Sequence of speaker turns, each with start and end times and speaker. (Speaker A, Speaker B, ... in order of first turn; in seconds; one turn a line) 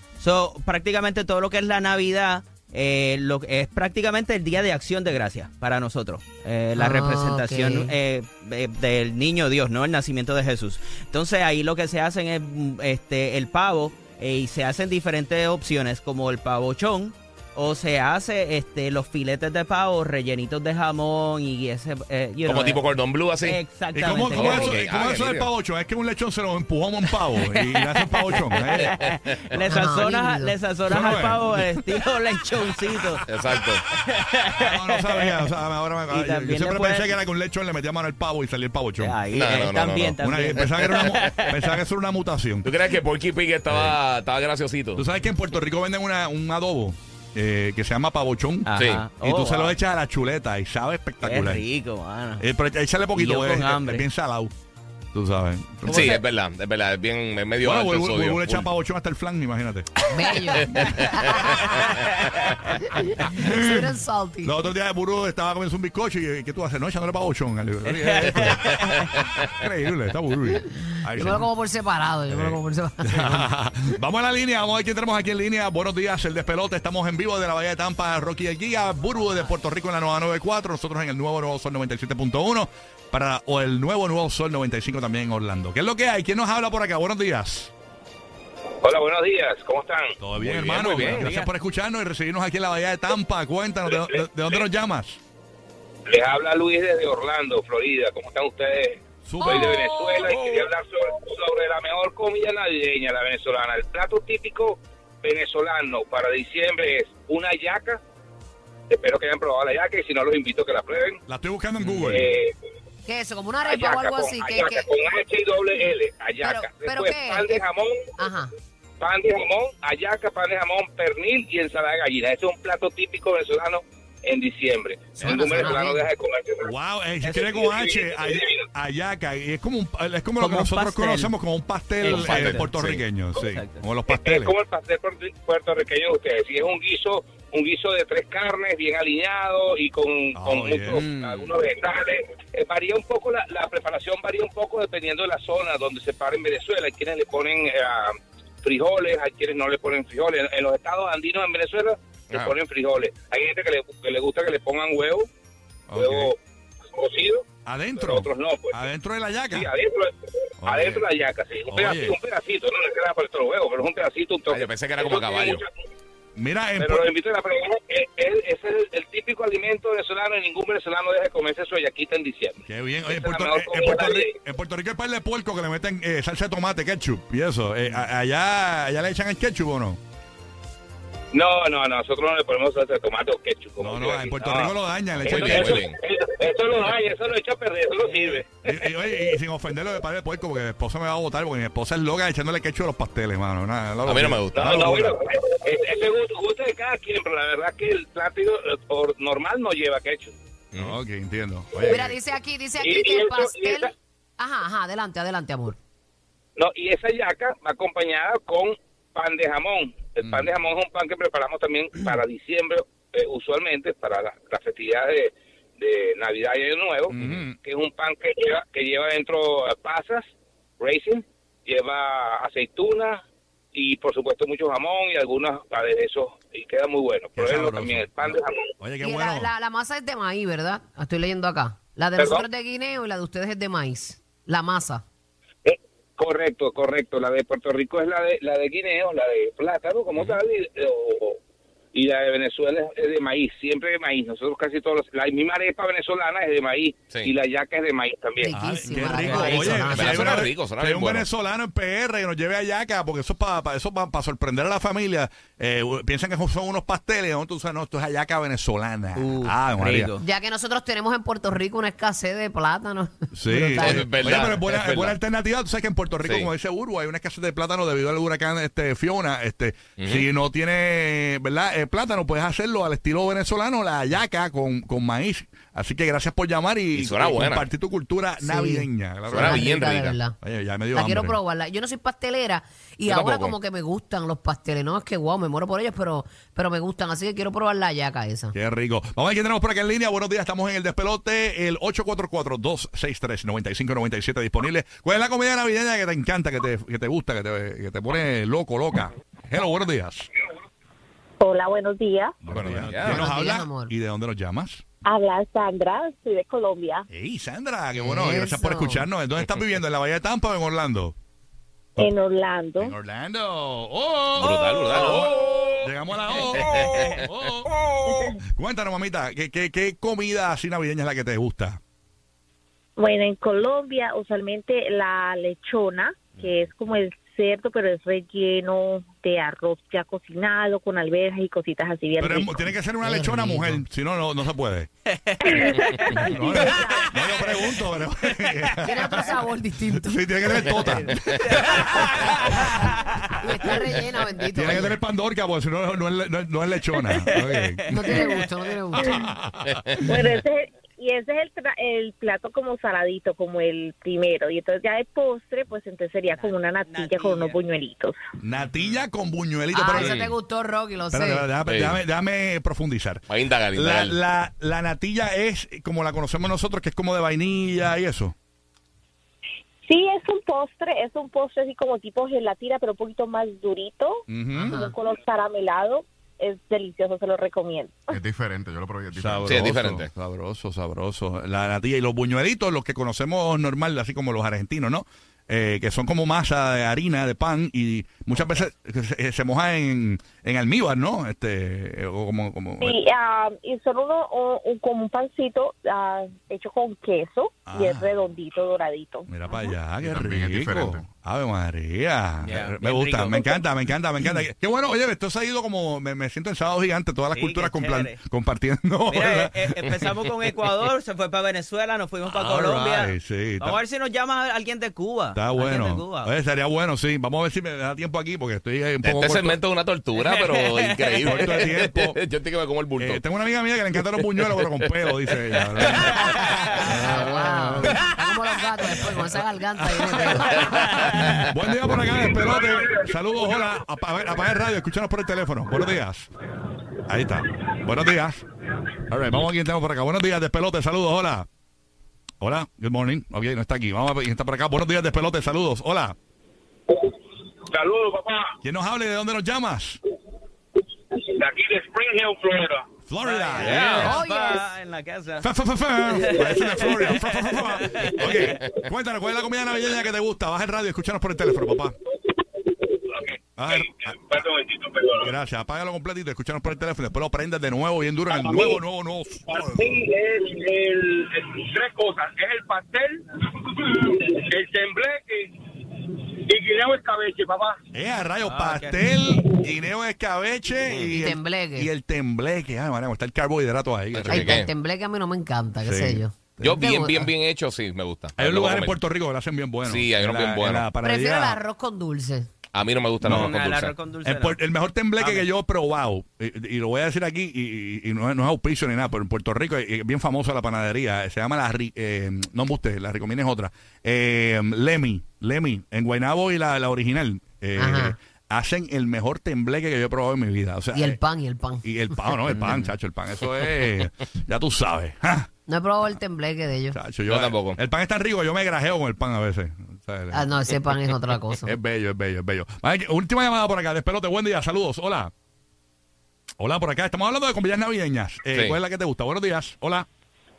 Speaker A: 0.2-24.8
Speaker B: 6.8-7.9
Speaker C: 22.4-23.6
Speaker D: 23.9-29.0
Speaker C: 24.3-25.5
Speaker A: 27.3-33.2
Speaker C: 28.8-29.6
Speaker B: 29.6-30.5
Speaker D: 30.9-31.7
Speaker C: 33.3-33.8
Speaker A: 33.9-35.5
Speaker D: 34.5-39.1
Speaker A: 36.1-37.2
Speaker A: 39.0-41.8
Speaker C: 39.3-41.1
Speaker D: 40.2-42.7
Speaker C: 42.6-45.0
Speaker D: 43.7-44.0
Speaker D: 44.9-51.6
Speaker A: 48.6-49.8
Speaker C: 48.7-49.0
Speaker A: 51.2-52.4
Speaker D: 52.4-54.5
Speaker A: 53.1-54.1
Speaker D: 55.1-56.2
Speaker A: 55.9-56.2
Speaker C: 55.9-58.7
Speaker D: 57.6-59.9
Speaker B: 60.1-61.9
Speaker A: 61.7-62.5
Speaker B: 62.8-64.5
Speaker D: 63.3-71.5
Speaker A: 67.8-69.1
Speaker B: 71.1-73.5
Speaker D: 72.3-87.7
Speaker E: 88.8-90.1
Speaker D: 90.2-95.2
Speaker C: 90.4-91.3
Speaker A: 91.0-91.5
Speaker E: 96.1-108.0
Speaker D: 99.2-99.8
Speaker E: 108.9-111.2
Speaker D: 111.3-112.3
Speaker C: 111.8-112.1
Speaker E: 112.0-112.5
Speaker B: 113.0-114.8
Speaker E: 113.7-118.1
Speaker B: 116.4-117.7
Speaker B: 118.2-118.5
Speaker E: 119.0-126.7
Speaker C: 125.2-125.5
Speaker B: 125.2-126.1
Speaker D: 126.6-134.5
Speaker E: 127.3-128.6
Speaker A: 130.4-131.3
Speaker A: 132.0-132.8
Speaker C: 132.1-133.0
Speaker A: 133.3-133.8
Speaker E: 134.1-155.3
Speaker D: 140.3-141.1
Speaker A: 141.1-141.5
Speaker D: 155.9-156.3
Speaker E: 155.9-156.4
Speaker E: 156.9-157.5
Speaker D: 157.6-159.7
Speaker E: 158.0-158.8
Speaker E: 159.5-160.1
Speaker D: 160.6-161.0
Speaker E: 160.6-165.7
Speaker D: 161.7-162.1
Speaker C: 164.5-165.6
Speaker D: 166.3-167.1
Speaker E: 166.8-174.3
Speaker D: 172.7-180.0
Speaker E: 181.3-184.7
Speaker D: 183.8-185.7
Speaker E: 185.2-189.3
Speaker C: 185.3-186.0
Speaker D: 188.6-195.1
Speaker C: 194.0-194.9
Speaker E: 194.5-200.3
Speaker C: 200.7-201.0
Speaker D: 200.8-202.1
Speaker B: 201.8-205.8
Speaker E: 202.8-203.9
Speaker E: 206.6-220.2
Speaker D: 210.2-210.5
Speaker D: 217.1-217.6
Speaker E: 220.8-223.2
Speaker E: 223.7-228.7
Speaker D: 227.3-229.5
Speaker B: 229.0-235.0
Speaker E: 232.2-232.5
Speaker E: 235.6-241.4
Speaker E: 241.9-248.5
Speaker B: 248.4-250.3
Speaker D: 248.5-260.1
Speaker A: 249.0-249.9
Speaker C: 249.9-251.3
Speaker A: 259.1-260.2
Speaker B: 260.2-264.1
Speaker D: 263.3-279.6
Speaker C: 263.7-265.2
Speaker C: 266.2-266.5
Speaker C: 270.0-270.3
Speaker C: 276.9-277.7
Speaker B: 278.4-280.4
Speaker C: 279.3-280.2
Speaker D: 280.4-281.4
Speaker B: 280.9-288.5
Speaker C: 283.1-283.6
Speaker D: 288.5-300.3
Speaker F: 301.4-302.3
Speaker D: 302.4-304.8
Speaker C: 302.5-303.3
Speaker B: 303.0-303.9
Speaker F: 305.0-307.1
Speaker D: 307.1-311.1
Speaker B: 307.9-309.0
Speaker F: 312.0-312.9
Speaker D: 312.8-317.7
Speaker C: 314.4-315.6
Speaker C: 316.5-317.1
Speaker F: 318.1-318.4
Speaker D: 318.5-321.8
Speaker F: 323.0-332.7
Speaker D: 332.2-334.9
Speaker B: 333.0-333.8
Speaker A: 335.2-336.2
Speaker F: 335.7-337.4
Speaker D: 336.1-339.3
Speaker B: 338.8-340.8
Speaker D: 340.0-342.5
Speaker A: 341.5-344.0
Speaker B: 343.4-345.0
Speaker D: 344.5-348.2
Speaker A: 346.9-348.4
Speaker B: 347.9-349.2
Speaker D: 348.9-350.0
Speaker F: 350.0-358.2
Speaker A: 356.3-357.6
Speaker D: 358.4-360.2
Speaker B: 359.7-361.5
Speaker C: 359.9-360.4
Speaker D: 361.1-368.3
Speaker C: 361.6-362.0
Speaker C: 363.3-364.2
Speaker F: 369.9-378.2
Speaker D: 374.3-374.8
Speaker B: 374.5-374.9
Speaker G: 378.1-379.7
Speaker D: 379.1-393.0
Speaker C: 379.4-380.1
Speaker F: 392.8-399.7
Speaker D: 397.7-398.1
Speaker D: 399.3-409.9
Speaker G: 400.0-401.0
Speaker A: 402.4-403.6
Speaker A: 407.3-408.2
Speaker A: 409.1-416.3
Speaker D: 412.2-413.8
Speaker D: 415.3-419.6
Speaker C: 419.0-423.2
Speaker A: 420.1-421.6
Speaker D: 421.2-422.2
Speaker D: 422.9-428.0
Speaker C: 424.2-424.8
Speaker C: 425.8-426.1
Speaker A: 426.1-426.7
Speaker B: 426.8-430.6
Speaker D: 429.7-436.3
Speaker A: 430.6-431.4
Speaker D: 437.1-438.4
Speaker D: 439.1-441.5
Speaker D: 442.4-446.1
Speaker E: 447.7-448.5
Speaker D: 448.6-450.0
Speaker E: 451.1-452.9
Speaker D: 453.1-454.2
Speaker A: 453.2-455.5
Speaker C: 453.6-454.0
Speaker B: 453.9-454.7
Speaker D: 455.4-461.9
Speaker A: 456.1-458.6
Speaker E: 462.8-465.3
Speaker D: 463.6-464.2
Speaker D: 465.2-470.0
Speaker E: 470.2-473.2
Speaker E: 474.5-475.4
Speaker E: 476.5-477.6
Speaker D: 477.9-484.6
Speaker A: 478.4-479.0
Speaker B: 481.1-481.9
Speaker C: 484.1-484.7
Speaker B: 484.2-487.3
Speaker D: 485.8-486.7
Speaker C: 486.6-489.0
Speaker D: 488.4-491.6
Speaker C: 489.8-490.9
Speaker B: 491.0-492.5
Speaker C: 492.7-493.9
Speaker D: 493.2-493.6
Speaker A: 493.2-494.6
Speaker D: 494.2-511.2
Speaker A: 495.2-495.4
Speaker B: 507.8-508.1
Speaker B: 510.9-511.8
Speaker D: 511.8-515.5
Speaker C: 512.6-512.9
Speaker B: 515.7-517.0
Speaker D: 516.9-520.7
Speaker C: 517.2-517.8
Speaker B: 520.3-521.7
Speaker D: 521.6-525.3
Speaker D: 526.6-530.1
Speaker C: 528.5-528.8